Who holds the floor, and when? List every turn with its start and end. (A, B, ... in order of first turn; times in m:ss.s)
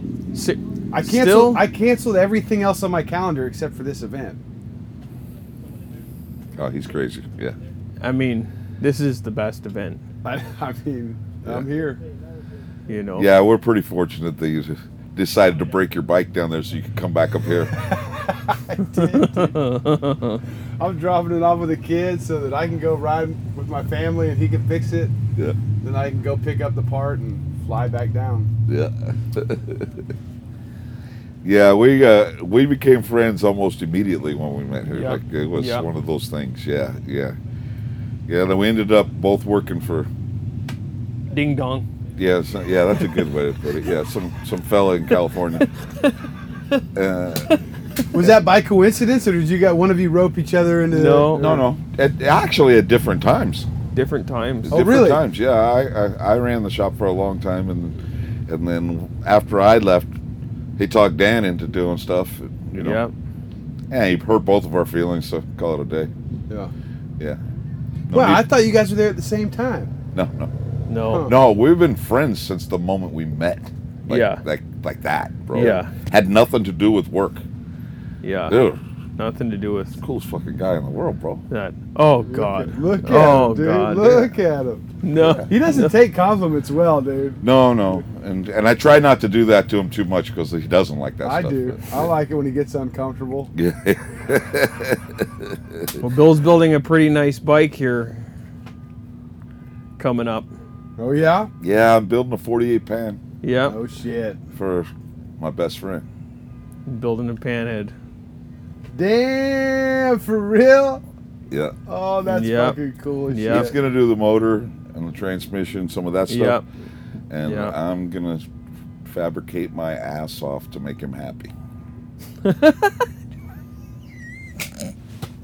0:00.3-0:01.6 A
0:00.9-0:04.4 B
0:06.6-0:07.6 C
0:08.0-0:10.0 A
0:10.2-0:12.0 B
0:12.9-0:13.3 A
0:13.2-0:17.7 C
0:17.8-0:19.5 B
0:18.9-0:20.4 A
0:20.8-0:25.1 B
0:25.8-0:28.5 B
0:28.7-0:30.0 C
0:31.4-0:37.4 C
0:34.9-0:35.8 A
0:38.3-0:40.1 C
0:41.3-0:41.8 A
0:42.2-0:45.7 C
0:45.6-0:46.1 A
0:46.9-0:47.5 C
0:48.1-0:51.6 B
0:50.9-0:51.5 A
0:51.4-0:53.7 C
0:53.9-0:54.8 A
0:54.6-1:00.1 C
0:54.7-0:55.2 B
1:00.8-1:03.0 C
1:02.8-1:03.1 A
1:03.9-1:06.1 C
1:08.1-1:08.5 C
1:08.1-1:09.9 B
1:10.1-1:10.5 C
1:10.9-1:11.3 A
1:11.1-1:11.3 B
1:11.2-1:17.4 C
1:14.1-1:14.4 A
1:15.5-1:15.9 A
1:18.2-1:18.6 A
1:18.5-1:18.8 C
1:19.2-1:20.0 A
1:20.0-1:21.4 C
1:21.5-1:24.3 A
1:22.3-1:24.9 B
1:25.0-1:25.9 A
1:25.2-1:25.5 C
1:25.5-1:28.0 B
1:27.4-1:32.1 C
1:31.2-1:33.5 B
1:33.5-1:36.0 C
1:36.0-1:38.2 A
1:40.0-1:40.5 A
1:41.0-1:41.5 B
1:41.6-1:43.2 C
1:43.4-1:43.8 A
1:43.6-1:44.4 B
1:44.5-1:46.0 C
1:46.8-1:47.9 A
1:48.9-1:51.0 B
1:51.5-1:51.8 C
1:51.9-1:53.8 B
1:52.2-1:52.8 A
1:53.3-1:53.7 A
1:53.5-1:56.6 C
1:56.3-1:56.6 A
1:57.3-1:58.5 C
1:57.4-1:57.7 A
1:59.0-2:01.5 C
2:02.4-2:03.0 A